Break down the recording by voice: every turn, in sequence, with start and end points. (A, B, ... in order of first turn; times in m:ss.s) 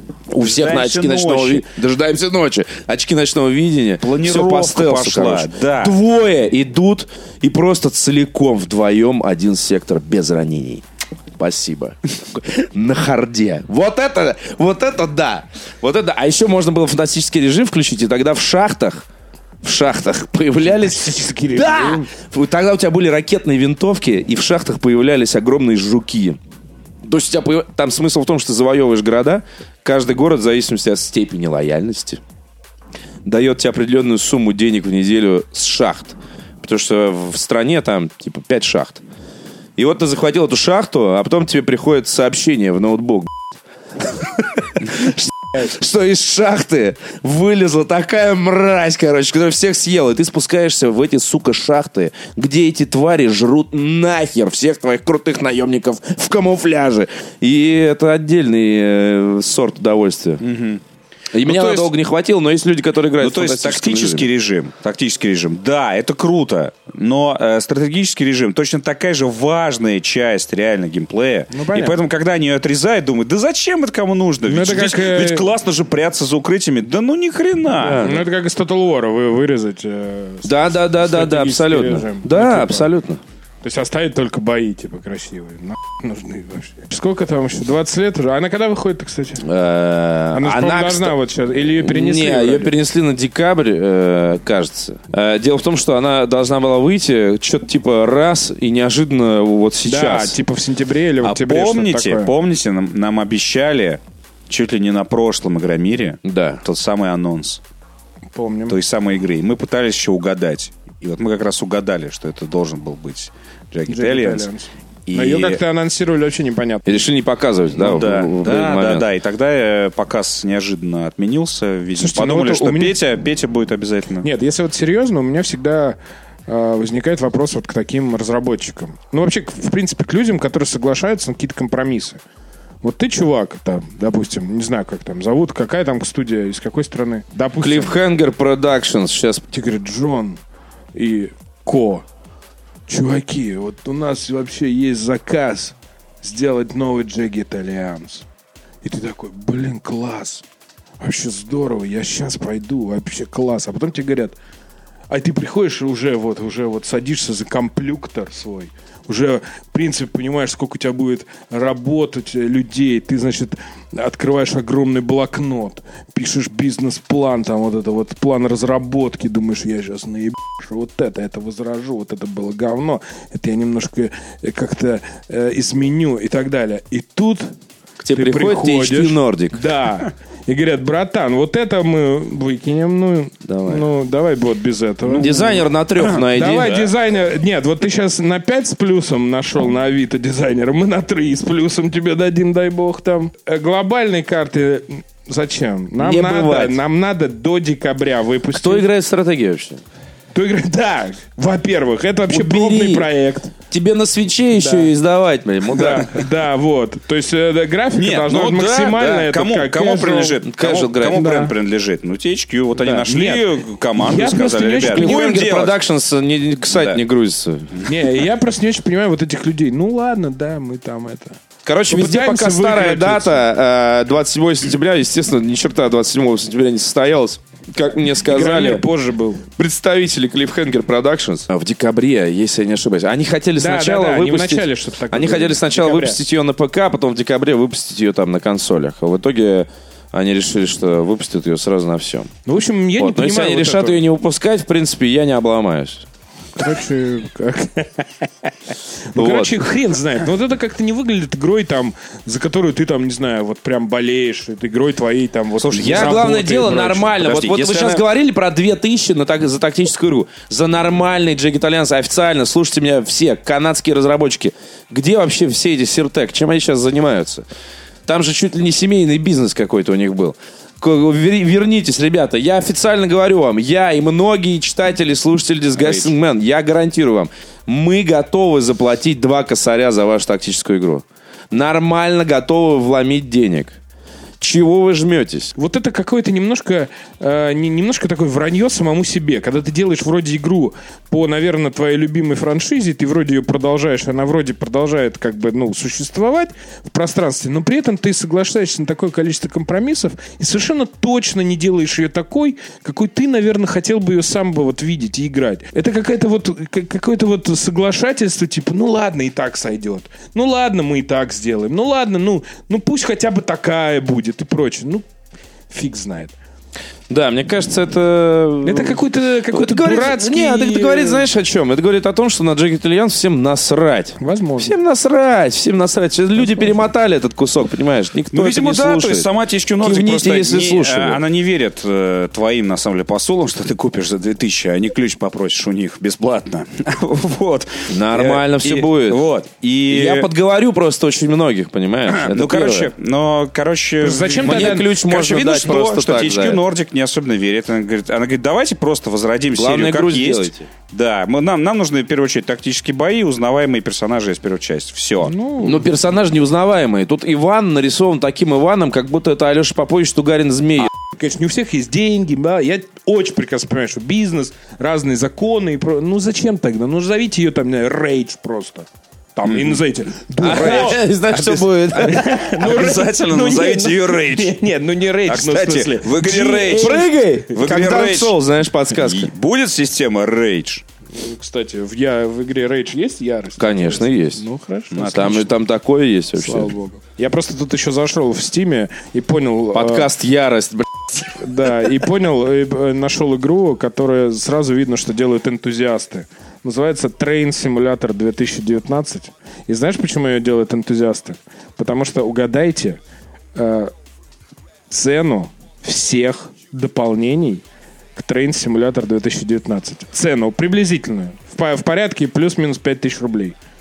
0:00.3-0:10.8 A
0:00.3-0:01.6 B
0:04.0-0:05.9 B
0:11.4-0:19.0 A
0:19.6-0:26.4 A
0:20.7-0:22.1 C
0:27.0-0:32.2 A
0:33.2-0:39.0 A
0:39.8-0:43.4 A
0:44.0-1:00.4 A
1:00.4-1:00.8 B
1:01.3-1:04.3 A
1:01.4-1:01.9 B
1:03.2-1:18.1 B
1:11.5-1:12.0 C
1:14.4-1:15.5 C
1:17.8-1:18.2 A
1:18.0-1:22.9 C
1:20.4-1:23.2 A
1:23.6-1:29.4 C
1:29.4-1:40.4 A
1:30.3-1:32.7 C
1:39.8-1:42.3 C
1:41.2-1:47.6 B
1:46.2-1:46.6 A
1:48.3-1:48.8 C
1:48.7-1:54.5 B
1:53.9-1:57.0 C
1:55.1-1:55.6 B
1:56.9-1:59.1 A
1:57.8-2:04.3 B
2:01.9-2:03.0 C
2:04.2-2:12.2 C
2:12.8-2:18.0 C
2:17.6-2:19.4 A
2:19.5-2:20.4 C
2:20.9-2:22.0 C
2:22.9-2:28.2 C
2:28.8-2:30.4 C
2:31.0-2:34.4 C
2:35.1-2:57.5 C
2:58.0-2:59.6 A
2:58.1-3:18.9 C
3:03.4-3:03.9 A
3:05.1-3:06.8 A
3:06.0-3:06.9 B
3:16.0-3:16.8 A
3:18.5-3:19.8 A
3:20.3-3:23.5 C
3:22.3-3:23.1 A
3:23.7-3:26.2 A
3:24.6-3:24.9 C
3:25.7-3:30.4 C
3:28.0-3:35.8 B
3:30.4-3:31.4 A
3:31.1-3:31.5 C
3:32.8-3:35.2 C
3:34.8-3:37.8 A
3:36.7-3:37.0 B
3:37.8-3:41.4 C
3:41.6-3:48.8 A
3:41.9-3:43.4 C
3:48.2-3:49.4 C
3:49.6-4:02.3 A
3:53.6-3:56.2 C
4:02.4-4:04.0 C
4:03.0-4:06.1 A
4:06.6-4:08.5 C
4:09.1-4:17.2 C
4:09.1-4:09.6 A
4:15.6-4:16.5 B
4:15.7-4:27.4 A
4:17.1-4:18.0 B
4:28.0-4:43.8 A
4:35.8-4:36.1 B
4:44.4-4:45.5 A
4:45.6-5:15.0 C
5:15.7-5:16.3 C
5:17.1-5:29.3 A
5:18.6-5:21.3 C
5:24.2-5:24.7 C
5:28.3-5:40.3 B
5:29.8-5:31.2 A
5:37.9-5:39.2 A
5:39.9-5:42.9 A
5:42.1-5:55.3 B
5:44.0-5:44.9 C
5:44.4-5:46.6 A
5:49.5-5:50.7 A
5:55.2-5:55.9 C
5:55.6-6:00.9 A
6:01.1-6:11.0 C
6:09.4-6:09.8 B
6:10.4-6:12.4 A
6:10.4-6:14.5 B
6:12.0-6:17.5 C
6:15.2-6:17.0 B
6:16.8-6:19.3 A
6:17.5-6:18.4 B
6:18.9-6:20.8 B
6:21.1-6:25.4 C
6:23.6-6:24.4 A
6:24.9-6:25.5 B
6:25.0-6:26.7 A
6:26.4-6:30.1 C
6:29.7-6:31.3 A
6:31.3-6:43.0 C
6:43.5-6:43.9 C
6:44.9-6:47.6 C
6:48.2-6:53.6 C